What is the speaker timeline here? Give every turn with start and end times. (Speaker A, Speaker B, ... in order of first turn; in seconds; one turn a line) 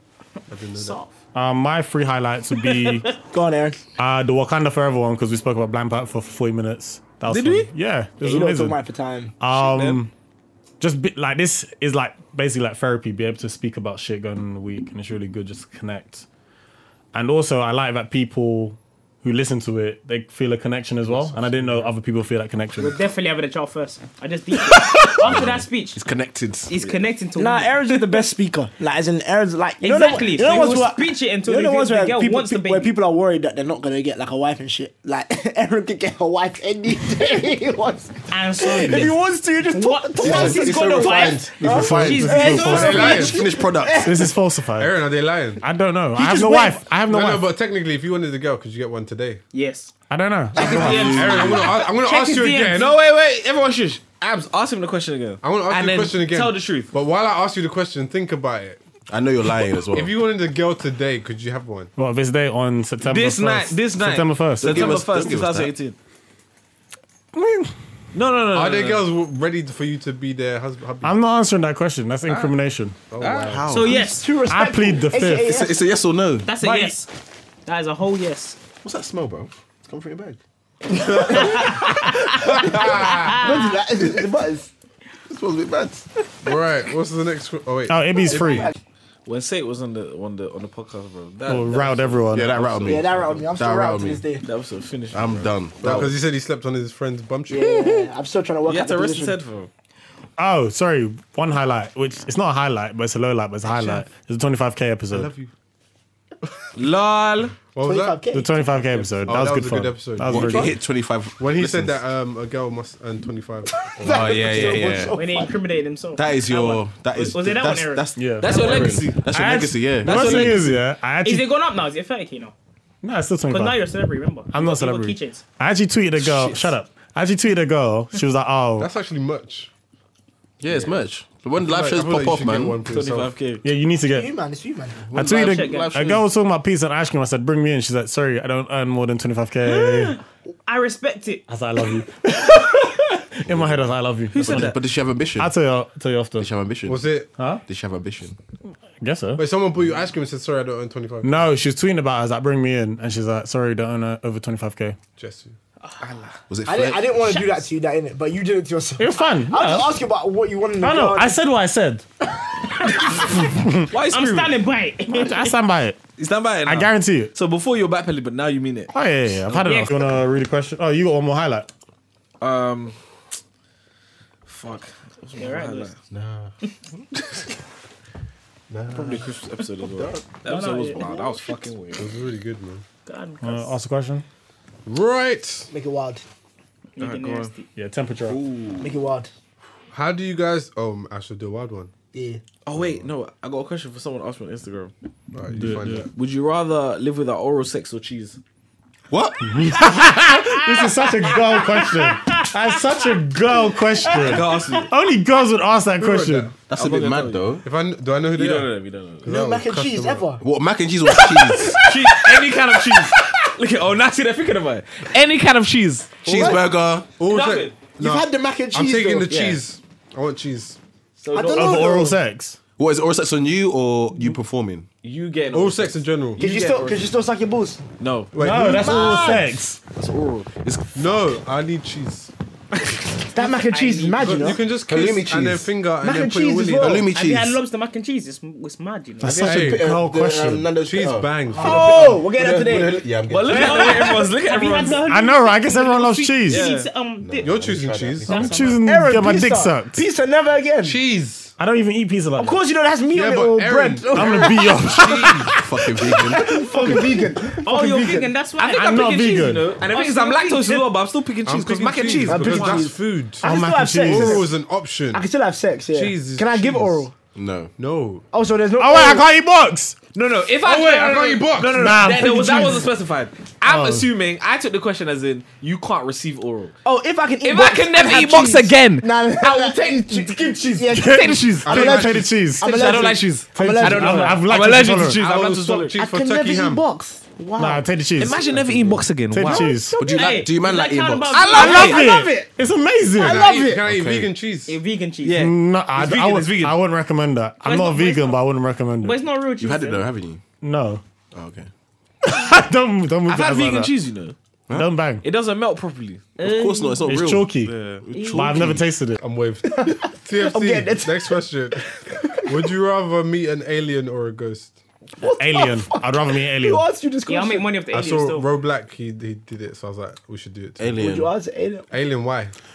Speaker A: 0.5-1.0
Speaker B: 0.8-1.1
Speaker C: 1.3-3.1
Speaker B: 2.6-3.1
Speaker D: 3.3-3.8
Speaker C: 4.0-8.8
Speaker E: 7.3-7.7
Speaker D: 8.2-9.3
Speaker C: 9.4-10.1
Speaker E: 9.5-10.0
Speaker C: 10.8-16.2
Speaker C: 17.1-23.0
Speaker A: 21.1-21.9
Speaker B: 22.8-26.0
Speaker F: 24.6-26.9
Speaker B: 26.7-28.2
Speaker D: 27.4-44.3
Speaker B: 29.8-32.9
Speaker B: 38.3-43.4
Speaker A: 40.2-41.5
Speaker F: 40.2-44.3
Speaker C: 41.6-43.3
Speaker A: 42.6-43.4
Speaker C: 44.0-44.9
Speaker A: 44.8-45.6
Speaker C: 45.6-47.5
Speaker D: 46.2-46.8
Speaker A: 46.4-49.4
Speaker B: 49.5-49.9
Speaker C: 50.1-51.2
Speaker B: 50.5-52.9
Speaker E: 50.6-51.6
Speaker F: 50.7-51.6
Speaker A: 51.0-52.9
Speaker E: 52.7-56.9
Speaker A: 55.4-58.8
Speaker F: 59.1-60.1
Speaker A: 59.9-61.9
Speaker C: 62.0-65.0
Speaker E: 63.0-66.0
Speaker F: 64.6-65.7
Speaker C: 67.3-67.7
Speaker E: 68.1-69.0
Speaker A: 68.5-71.2
Speaker C: 71.0-73.0
Speaker E: 72.3-72.5
Speaker A: 73.1-73.6
Speaker E: 73.2-73.6
Speaker F: 73.3-74.0
Speaker B: 73.7-74.3
Speaker D: 73.9-75.8
Speaker C: 74.5-75.5
Speaker F: 75.4-76.5
Speaker B: 76.4-77.1
Speaker A: 76.6-76.9
Speaker B: 77.7-78.6
Speaker F: 78.8-80.4
Speaker D: 80.9-84.7
Speaker A: 81.0-81.8
Speaker B: 81.1-83.8
Speaker A: 82.5-83.4
Speaker F: 85.3-86.1
Speaker A: 86.4-88.7
Speaker C: 87.9-88.7
Speaker D: 88.3-88.7
Speaker E: 89.2-93.3
Speaker C: 91.5-92.6
Speaker F: 92.3-94.2
Speaker D: 92.8-94.4
Speaker E: 94.4-95.5
Speaker F: 95.1-96.1
Speaker A: 95.8-97.9
Speaker D: 97.5-99.3
Speaker E: 98.7-99.7
Speaker C: 100.4-105.3
Speaker A: 103.8-104.0
Speaker A: 105.1-105.5
Speaker E: 106.8-107.5
Speaker A: 107.7-108.2
Speaker D: 107.8-108.5
Speaker C: 108.3-110.8
Speaker A: 109.2-110.8
Speaker F: 110.2-112.0
Speaker A: 111.4-115.1
Speaker D: 113.7-115.6
Speaker F: 114.0-115.2
Speaker B: 115.1-120.5
Speaker F: 116.1-120.7
Speaker C: 118.2-118.5
Speaker E: 118.4-120.7
Speaker C: 120.0-121.5
Speaker B: 121.2-122.5
Speaker C: 123.0-123.8
Speaker B: 123.5-125.4
Speaker C: 124.5-128.9
Speaker F: 126.4-126.7
Speaker A: 128.8-129.7
Speaker F: 130.6-132.8
Speaker A: 130.7-131.0
Speaker A: 131.6-133.3
Speaker E: 132.9-133.6
Speaker C: 133.6-134.3
Speaker D: 134.1-135.1
Speaker F: 135.1-136.2
Speaker C: 135.1-140.2
Speaker B: 135.2-136.0
Speaker B: 139.7-141.4
Speaker C: 141.5-144.8
Speaker F: 143.5-143.8
Speaker E: 144.3-144.8
Speaker F: 144.3-145.5
Speaker C: 145.4-146.5
Speaker F: 146.4-147.1
Speaker A: 146.8-147.3
Speaker C: 147.4-147.6
Speaker F: 147.7-148.3
Speaker C: 149.0-149.4
Speaker A: 149.4-151.5
Speaker C: 151.2-155.0
Speaker A: 155.2-155.6
Speaker E: 156.0-156.3
Speaker F: 156.5-157.4
Speaker D: 156.7-161.4
Speaker C: 159.0-159.9
Speaker C: 160.8-162.0
Speaker C: 163.2-163.9
Speaker E: 163.9-164.6
Speaker B: 164.1-165.5
Speaker C: 165.1-166.0
Speaker E: 166.2-168.9
Speaker C: 166.6-167.3
Speaker C: 168.9-171.7
Speaker B: 169.6-170.2
Speaker E: 172.4-172.9
Speaker E: 174.4-175.9
Speaker B: 175.4-175.9
Speaker F: 176.1-176.5
Speaker F: 178.7-180.4
Speaker E: 178.9-182.1
Speaker B: 180.4-181.1
Speaker D: 180.9-181.6
Speaker A: 181.9-182.8
Speaker B: 183.1-183.7
Speaker C: 183.4-184.2
Speaker A: 184.8-185.7
Speaker D: 185.7-186.2
Speaker B: 186.9-187.7
Speaker E: 187.0-187.5
Speaker C: 187.8-188.4
Speaker F: 188.2-189.0
Speaker D: 188.8-189.3
Speaker A: 189.9-191.9
Speaker D: 192.1-192.4
Speaker E: 192.7-194.9
Speaker F: 192.8-193.0
Speaker A: 195.3-196.1
Speaker C: 195.5-196.1
Speaker E: 196.1-198.4
Speaker F: 199.1-199.8
Speaker C: 199.5-206.5
Speaker E: 204.1-204.9
Speaker A: 206.0-206.6
Speaker F: 206.7-207.6
Speaker E: 206.7-207.5
Speaker A: 207.6-208.7
Speaker E: 208.3-209.3
Speaker A: 209.2-210.3
Speaker D: 209.2-210.4
Speaker F: 210.4-211.8
Speaker D: 211.4-211.9
Speaker E: 211.8-216.2
Speaker F: 216.2-217.1
Speaker A: 216.2-220.8
Speaker D: 216.3-216.6
Speaker E: 217.2-217.8
Speaker D: 218.0-219.3
Speaker E: 219.3-219.6
Speaker E: 221.2-221.9
Speaker D: 221.3-222.2
Speaker C: 221.5-222.6
Speaker F: 222.8-224.9
Speaker E: 225.0-227.1
Speaker A: 225.5-226.4
Speaker D: 226.4-227.8
Speaker E: 228.0-228.3
Speaker A: 228.3-229.0
Speaker C: 228.4-229.8
Speaker D: 228.6-229.6
Speaker E: 230.0-230.6
Speaker F: 230.6-231.0
Speaker A: 230.9-232.3
Speaker D: 233.3-234.6
Speaker B: 233.4-234.6
Speaker A: 234.2-237.0
Speaker F: 234.7-235.7
Speaker D: 236.0-237.0
Speaker F: 236.8-237.6
Speaker B: 237.1-239.4
Speaker C: 239.2-240.7
Speaker F: 239.2-244.1
Speaker A: 239.4-239.8
Speaker A: 240.8-241.9
Speaker D: 241.5-244.3
Speaker E: 243.3-245.0
Speaker B: 243.5-247.6
Speaker C: 245.1-246.7
Speaker E: 246.5-246.9
Speaker F: 247.2-248.8
Speaker A: 247.4-248.5
Speaker B: 248.3-248.6
Speaker C: 248.3-250.0
Speaker D: 248.6-251.0
Speaker A: 250.8-251.5
Speaker C: 251.6-252.6
Speaker D: 252.4-255.6
Speaker A: 253.1-255.5
Speaker C: 254.1-255.5
Speaker F: 255.5-256.6
Speaker D: 256.1-258.3
Speaker B: 257.6-259.3
Speaker E: 258.6-262.9
Speaker C: 258.7-259.7
Speaker B: 259.8-260.9
Speaker A: 261.4-265.2
Speaker D: 262.3-264.6
Speaker C: 263.4-264.5
Speaker D: 265.1-267.1
Speaker A: 265.9-267.1
Speaker F: 267.3-267.7
Speaker A: 267.8-268.2
Speaker D: 268.3-269.2
Speaker C: 268.8-269.9
Speaker E: 270.1-276.8
Speaker A: 270.6-271.8
Speaker C: 271.7-272.9
Speaker C: 273.6-274.1
Speaker D: 276.8-284.4
Speaker E: 277.4-281.9
Speaker C: 280.8-283.0
Speaker A: 281.6-282.4
Speaker E: 282.6-285.9
Speaker C: 283.5-285.2
Speaker A: 285.1-286.8
Speaker D: 285.9-287.8
Speaker C: 287.6-288.4
Speaker E: 288.2-289.8
Speaker C: 289.3-290.0
Speaker D: 289.4-290.5
Speaker F: 290.0-291.5
Speaker B: 290.1-292.2
Speaker E: 291.3-292.1
Speaker D: 291.5-292.5
Speaker C: 291.5-293.4
Speaker D: 293.1-293.9
Speaker A: 293.2-294.8
Speaker F: 293.8-294.3
Speaker B: 294.7-295.5
Speaker E: 295.2-296.8
Speaker C: 295.3-299.2
Speaker B: 297.6-298.4
Speaker B: 299.0-300.0
Speaker F: 299.6-300.4
Speaker C: 300.6-301.0
Speaker F: 301.3-301.7
Speaker C: 302.2-303.9
Speaker E: 303.3-304.4
Speaker F: 304.7-304.9
Speaker C: 304.7-305.2
Speaker E: 305.2-306.4
Speaker B: 306.4-307.1
Speaker F: 306.4-308.9
Speaker C: 307.1-307.8
Speaker B: 308.1-308.5
Speaker C: 308.3-309.2
Speaker A: 309.2-311.9
Speaker D: 309.7-311.4
Speaker D: 312.1-312.5
Speaker A: 312.4-314.8
Speaker D: 315.2-317.7
Speaker C: 315.4-316.8
Speaker B: 317.2-318.5
Speaker A: 317.9-321.0
Speaker F: 320.8-321.3
Speaker D: 321.0-321.9
Speaker A: 321.9-322.5